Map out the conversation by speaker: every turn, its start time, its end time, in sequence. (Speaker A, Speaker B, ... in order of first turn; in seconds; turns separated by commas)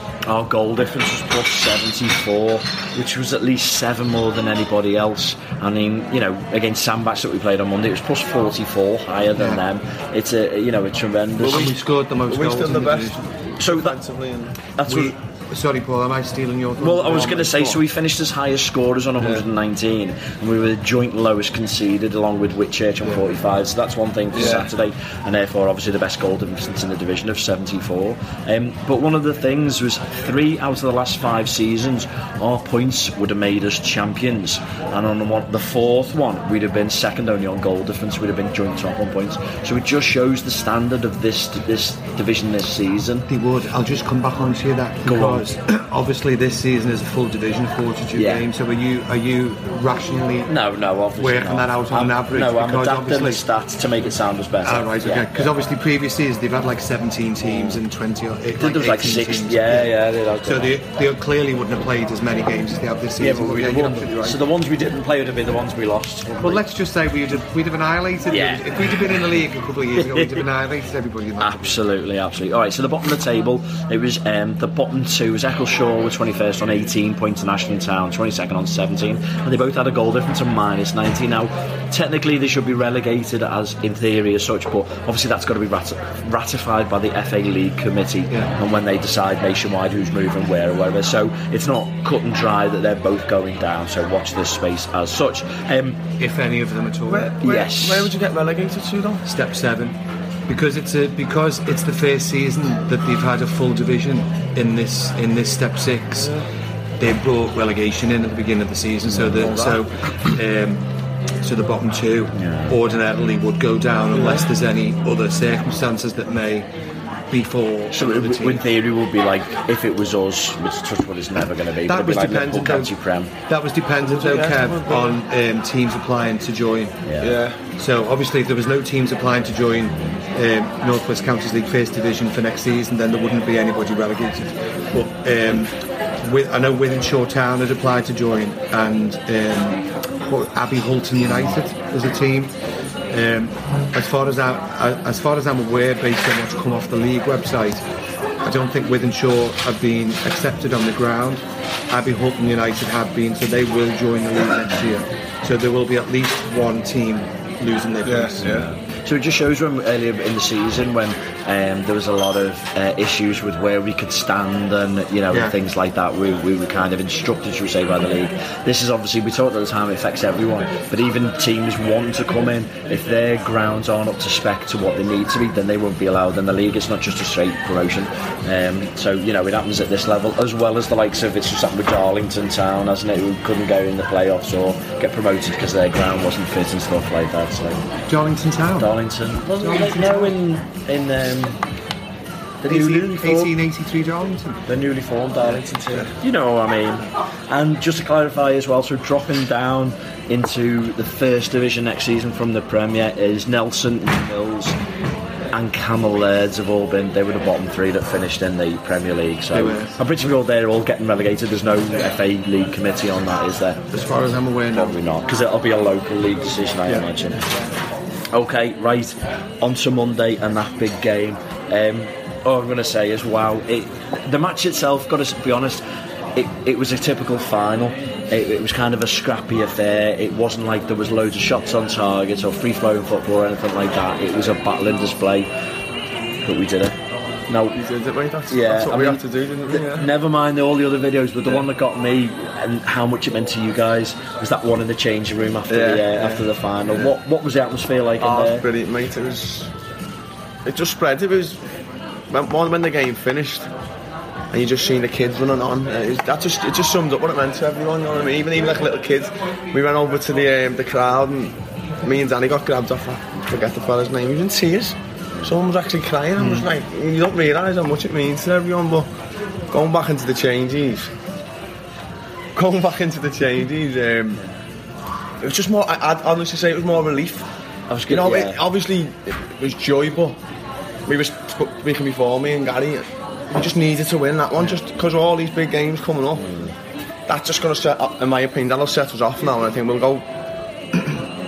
Speaker A: 0.2-11.7, Speaker B: 9.4-9.6, Speaker C: 11.4-14.5, Speaker B: 11.5-13.2, Speaker A: 13.6-14.0, Speaker A: 14.8-15.1, Speaker B: 14.8-17.7, Speaker A: 16.8-43.2, Speaker C: 17.0-17.8, Speaker C: 19.2-19.4, Speaker C: 24.3-24.7, Speaker B: 43.3-50.5, Speaker A: 45.0-45.4, Speaker A: 48.1-48.4, Speaker A: 50.5-55.5, Speaker B: 51.2-53.4, Speaker B: 54.6-64.4, Speaker A: 57.4-57.8, Speaker A: 58.6-60.8, Speaker A: 63.2-66.6, Speaker B: 66.4-71.8, Speaker A: 68.3-69.0, Speaker A: 70.0-70.4, Speaker A: 71.4-96.0, Speaker B: 96.2-97.3, Speaker C: 97.1-99.2, Speaker A: 97.4-98.1, Speaker B: 99.2-106.3, Speaker B: 107.0-110.9, Speaker A: 109.1-109.4, Speaker C: 109.3-109.8, Speaker B: 111.4-116.7, Speaker A: 112.3-112.8, Speaker C: 114.1-114.5, Speaker B: 117.3-118.6, Speaker A: 117.9-123.3, Speaker B: 121.8-122.9, Speaker B: 123.5-127.0, Speaker C: 124.0-125.2, Speaker A: 127.0-127.3, Speaker C: 127.2-127.6, Speaker B: 127.8-142.5, Speaker B: 143.1-147.8, Speaker B: 148.4-158.5, Speaker C: 158.0-158.7, Speaker A: 158.4-187.8, Speaker B: 188.1-188.9, Speaker A: 188.8-191.6, Speaker B: 189.6-190.3, Speaker A: 192.6-193.5, Speaker B: 192.7-194.6, Speaker A: 194.7-204.8, Speaker A: 205.5-213.8, Speaker B: 209.5-209.9, Speaker B: 213.9-215.0, Speaker A: 214.7-217.4, Speaker A: 218.3-225.8, Speaker A: 226.3-235.5, Speaker A: 236.4-237.0, Speaker A: 237.5-237.8, Speaker C: 237.7-240.1, Speaker A: 238.5-248.7, Speaker C: 245.7-247.1, Speaker C: 248.2-249.7, Speaker C: 250.6-251.6, Speaker C: 252.3-253.7, Speaker C: 254.5-269.1, Speaker B: 266.4-266.7, Speaker C: 269.7-271.1, Speaker C: 272.6-274.4, Speaker C: 275.4-277.4, Speaker A: 277.9-278.6, Speaker C: 278.1-280.4, Speaker C: 281.1-286.4, Speaker A: 286.4-286.7, Speaker C: 287.3-290.2